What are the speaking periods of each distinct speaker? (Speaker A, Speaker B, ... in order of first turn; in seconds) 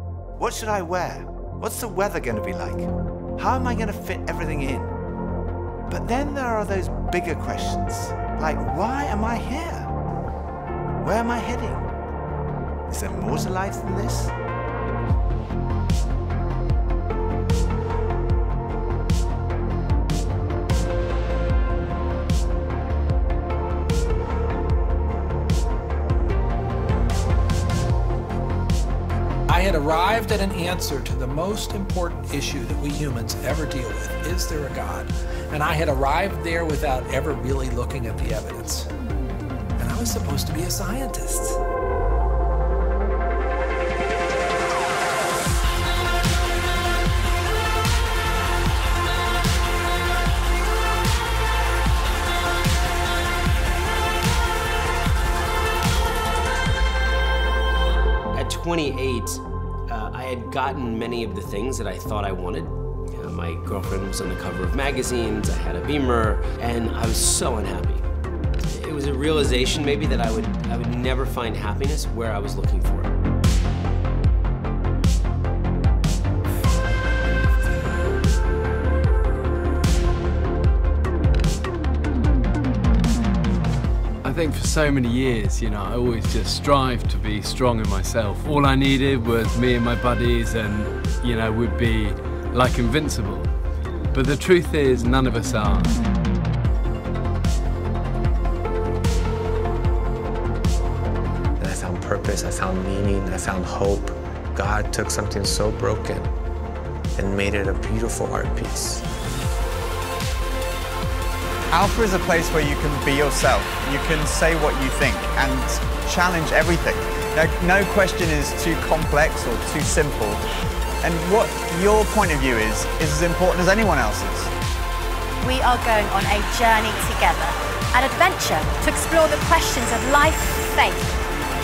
Speaker A: 0.3-4.9, 5.9-9.9, 11.0-11.9, 12.9-14.3
Speaker B: 29.5-38.9, 39.8-41.6
Speaker C: 58.3-68.0, 68.7-73.1
Speaker D: 84.2-93.5, 94.1-96.0
Speaker E: 101.6-106.3, 107.2-109.0
Speaker F: 111.7-120.4, 121.0-124.5
Speaker G: 125.4-131.1